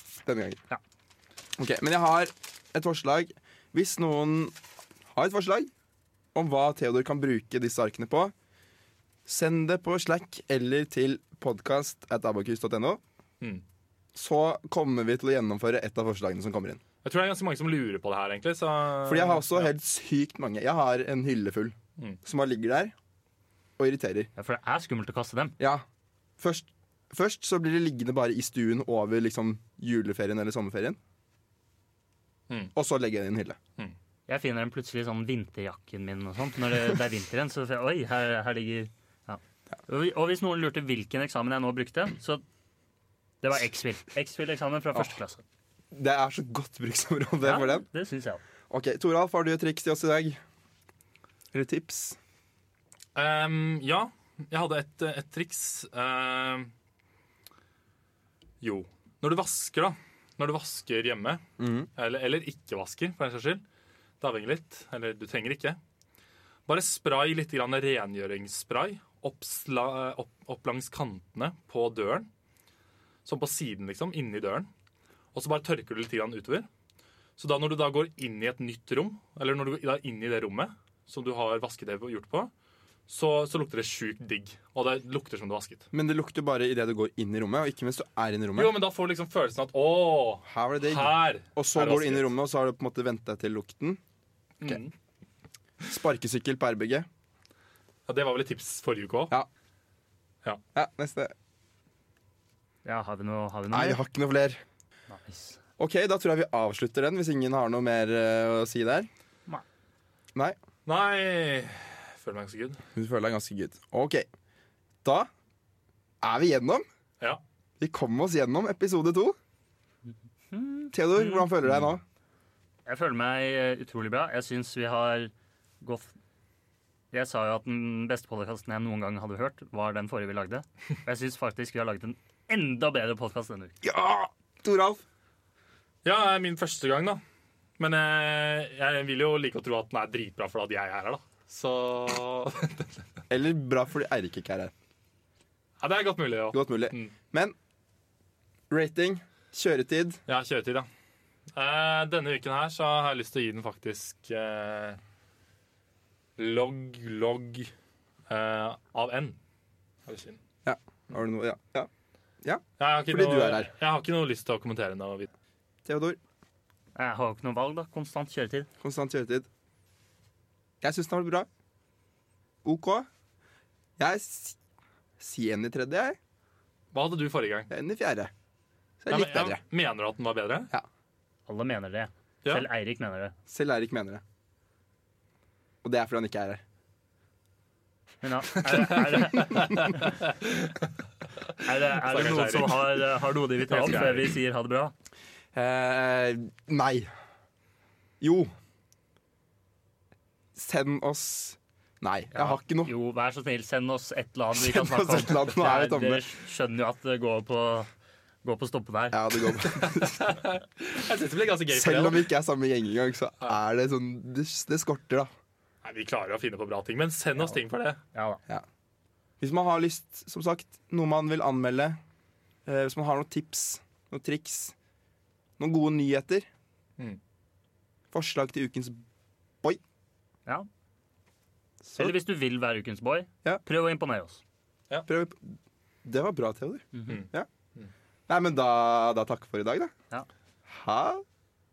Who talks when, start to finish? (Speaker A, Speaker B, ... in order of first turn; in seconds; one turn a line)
Speaker A: 0.2-0.6
Speaker A: 1.6-4.6
Speaker A: 5.1-5.7
Speaker A: 6.3-8.3
Speaker A: 9.3-13.0
Speaker A: 14.2-16.8
Speaker B: 17.0-19.7
Speaker A: 19.1-22.9
Speaker A: 23.8-24.3
Speaker C: 24.4-25.6
Speaker A: 25.6-25.8
Speaker A: 26.4-31.0
Speaker A: 32.8-33.6
Speaker C: 34.3-42.4
Speaker C: 43.4-45.4
Speaker A: 45.9-47.9
Speaker C: 47.4-48.4
Speaker A: 48.7-50.4
Speaker A: 51.5-52.2
Speaker B: 53.1-56.7
Speaker B: 58.6-61.4
Speaker A: 61.6-61.9
Speaker B: 62.0-63.6
Speaker B: 64.2-65.8
Speaker B: 66.7-72.3
Speaker B: 73.2-74.7
Speaker B: 75.3-76.7
Speaker B: 77.4-82.5
Speaker B: 83.1-85.9
Speaker A: 85.9-88.8
Speaker B: 88.6-92.3
Speaker A: 90.5-94.0
Speaker B: 94.6-94.9
Speaker A: 95.8-97.1
Speaker B: 98.1-99.3
Speaker A: 100.8-101.3
Speaker C: 102.8-104.0
Speaker A: 103.7-104.6
Speaker C: 105.1-105.6
Speaker A: 105.8-109.1
Speaker B: 110.9-112.8
Speaker A: 113.0-114.3
Speaker A: 115.0-115.3
Speaker A: 116.2-116.8
Speaker A: 117.8-119.4
Speaker C: 120.5-121.5
Speaker A: 120.9-122.0
Speaker B: 121.6-121.9
Speaker C: 122.9-126.1
Speaker C: 127.1-133.7
Speaker A: 133.8-135.0
Speaker B: 136.0-137.2
Speaker B: 137.8-143.0
Speaker A: 143.3-144.7
Speaker B: 145.8-147.1
Speaker A: 146.5-147.6
Speaker A: 148.7-150.2
Speaker B: 150.3-150.9
Speaker B: 151.5-155.0
Speaker B: 156.4-157.7
Speaker B: 158.3-159.4
Speaker B: 160.1-160.4
Speaker A: 160.7-161.9
Speaker A: 162.4-163.7
Speaker B: 162.8-165.3
Speaker A: 165.8-166.2
Speaker C: 166.9-168.7
Speaker A: 168.8-169.5
Speaker A: 170.8-171.5
Speaker A: 172.6-173.1
Speaker A: 174.0-174.6
Speaker A: 175.2-176.2
Speaker B: 176.9-177.7
Speaker A: 177.7-178.3
Speaker A: 179.0-179.6
Speaker B: 179.1-180.7
Speaker C: 181.5-183.3
Speaker A: 183.5-184.2
Speaker A: 185.8-186.6
Speaker C: 188.2-189.7
Speaker B: 189.0-190.9
Speaker C: 191.6-194.9
Speaker B: 191.9-193.1
Speaker B: 193.7-194.3
Speaker A: 195.5-197.1
Speaker A: 198.2-198.5
Speaker A: 200.6-202.9
Speaker C: 202.3-207.9
Speaker A: 204.5-206.2
Speaker C: 208.4-209.2
Speaker A: 209.1-210.2
Speaker B: 209.8-212.3
Speaker A: 211.7-215.3
Speaker B: 215.8-218.0
Speaker C: 218.1-218.4
Speaker A: 219.4-222.0
Speaker A: 222.7-224.7
Speaker A: 225.6-226.5
Speaker A: 228.1-229.0
Speaker A: 231.8-232.1
Speaker C: 231.9-234.4
Speaker A: 235.1-237.5
Speaker B: 237.1-237.9
Speaker A: 238.3-239.9
Speaker A: 240.7-241.2